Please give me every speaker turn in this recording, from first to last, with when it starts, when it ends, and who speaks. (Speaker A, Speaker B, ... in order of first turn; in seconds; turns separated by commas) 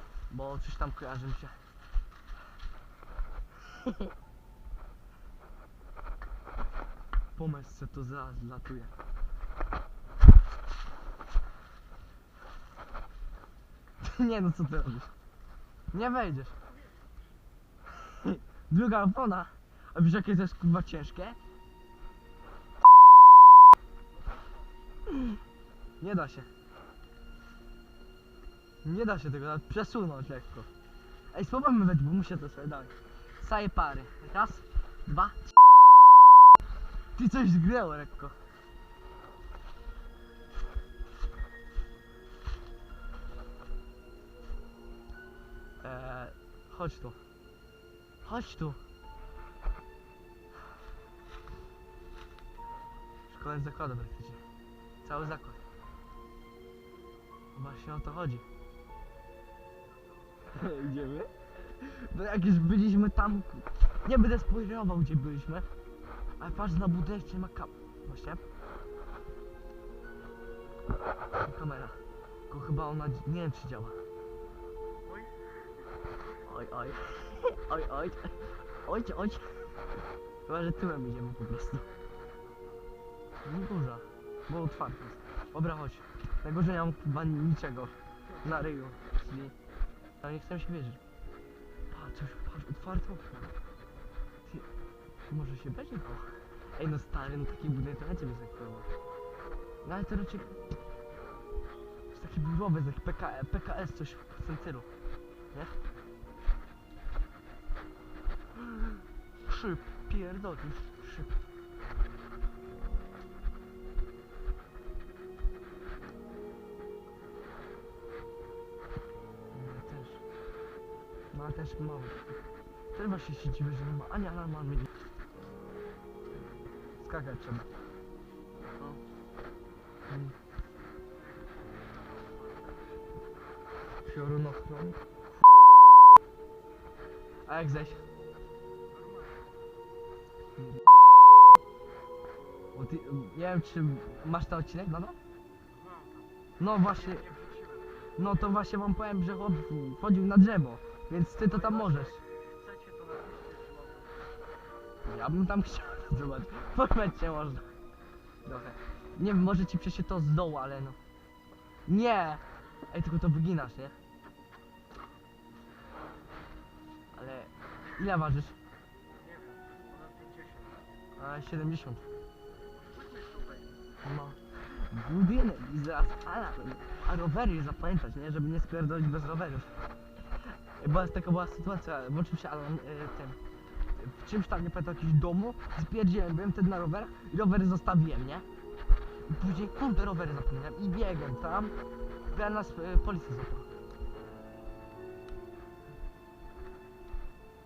Speaker A: 0.3-1.6, Speaker A: 7.3-8.9, Speaker A: 14.0-15.1, Speaker A: 15.9-16.5, Speaker B: 16.0-17.1, Speaker A: 17.9-21.4, Speaker A: 25.1-25.4, Speaker A: 26.0-26.5, Speaker A: 28.8-30.7, Speaker A: 31.3-35.4, Speaker A: 37.1-38.4, Speaker A: 45.8-47.2, Speaker A: 48.2-48.8, Speaker A: 53.3-54.4, Speaker A: 55.0-55.6, Speaker A: 57.5-58.4, Speaker A: 60.5-65.7, Speaker A: 66.4-68.4, Speaker A: 71.4-74.0, Speaker B: 75.0-75.4, Speaker A: 76.4-79.8, Speaker A: 80.5-81.8, Speaker B: 81.9-82.9, Speaker A: 83.4-89.5, Speaker A: 90.2-91.0, Speaker A: 91.9-93.5, Speaker A: 95.3-98.9, Speaker A: 99.8-100.6, Speaker A: 102.1-104.9, Speaker A: 109.4-111.3, Speaker A: 119.5-120.2, Speaker A: 121.3-122.2, Speaker A: 122.9-124.9, Speaker A: 127.0-127.7, Speaker A: 130.1-130.3, Speaker B: 131.2-132.9, Speaker A: 134.0-135.0, Speaker A: 137.4-138.0, Speaker B: 138.9-139.7, Speaker A: 142.7-145.2, Speaker B: 145.7-148.1, Speaker A: 146.6-147.3, Speaker A: 148.2-152.2, Speaker B: 151.4-154.6, Speaker A: 155.0-157.7, Speaker A: 158.4-161.0, Speaker A: 161.9-163.9, Speaker A: 167.1-168.6, Speaker B: 169.1-170.9, Speaker A: 171.2-172.1, Speaker B: 172.7-173.8, Speaker A: 174.0-179.8, Speaker A: 180.8-183.4, Speaker A: 183.9-188.4, Speaker A: 189.2-191.8, Speaker A: 192.3-193.7